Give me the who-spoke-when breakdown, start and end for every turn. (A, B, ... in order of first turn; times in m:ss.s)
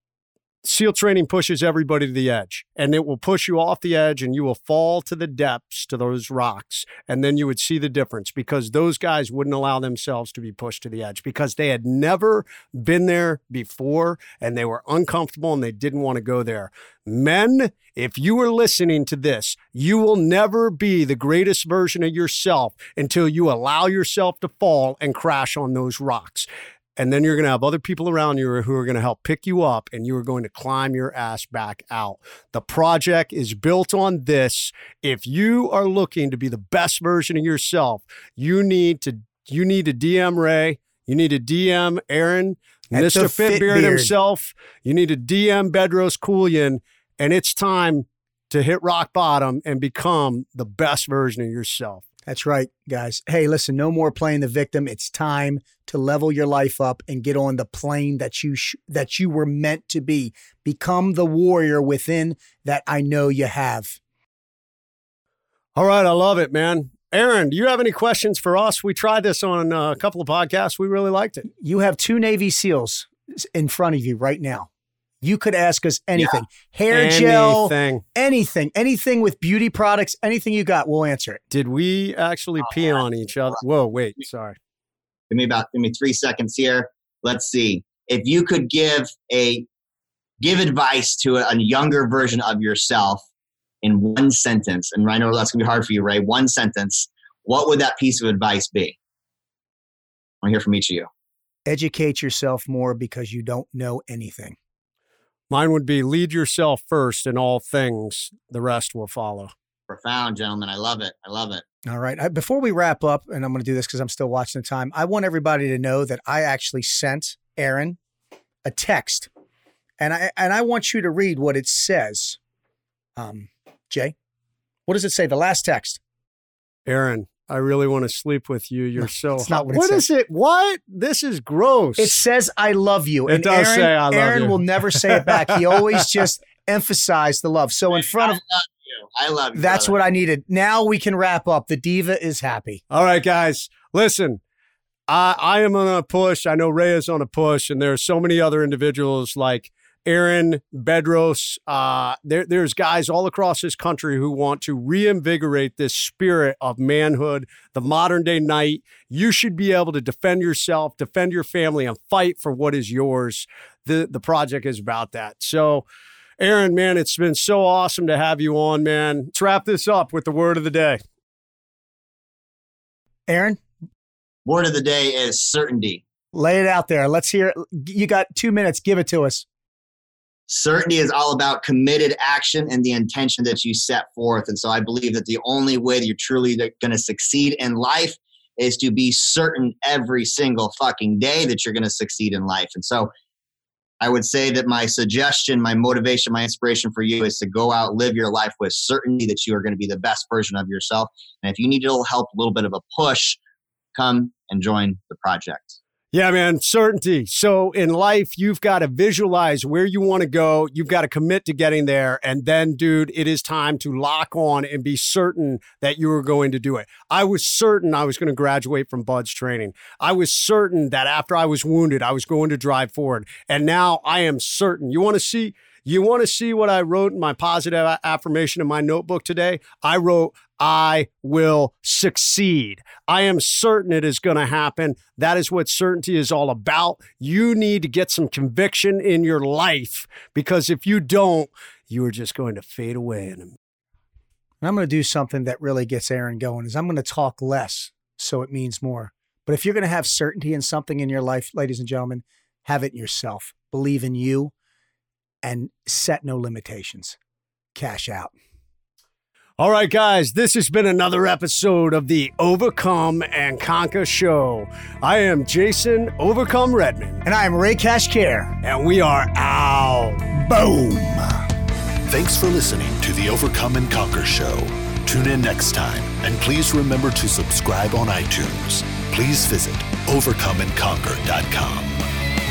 0:00.6-0:52.0 A
0:42.9-0:44.1 B
0:52.3-1:04.0 B
1:05.7-1:11.5 A
1:11.6-1:14.7 B
1:15.2-1:21.4 B
1:16.9-1:18.0 A
1:21.5-1:24.6 A
1:25.3-1:29.6 C
1:30.4-1:33.2 C
1:33.8-1:38.9 C
1:40.4-1:41.1 C
1:41.7-1:44.6 B
1:45.5-1:49.5 A
1:49.9-1:51.6 C
1:51.9-1:58.0 B
1:58.6-1:59.3 B
2:00.0-2:02.4 B
2:03.2-2:04.1 B
2:04.9-2:06.0 B
2:06.9-2:12.2 A
2:09.0-2:10.0 B
2:12.0-2:18.4 B
2:13.3-2:16.0 A
2:18.0-2:19.9 C
2:19.6-2:22.8 B
2:22.9-2:24.4 A
2:25.1-2:45.8 A
2:46.4-2:51.0 A
2:53.3-2:53.6 B
2:54.4-2:56.0 C
2:56.3-2:59.4 B
3:00.5-3:13.1 C
3:14.0-3:23.4 C
3:23.9-3:25.8 C
3:26.1-4:03.5 A
4:04.6-4:14.5 B
4:15.4-4:17.2 B
4:17.7-4:18.3 B
4:19.6-4:27.2 A
4:27.2-4:28.6 B
4:28.6-4:30.3 A
4:30.3-4:31.5 B
4:32.1-4:42.0 D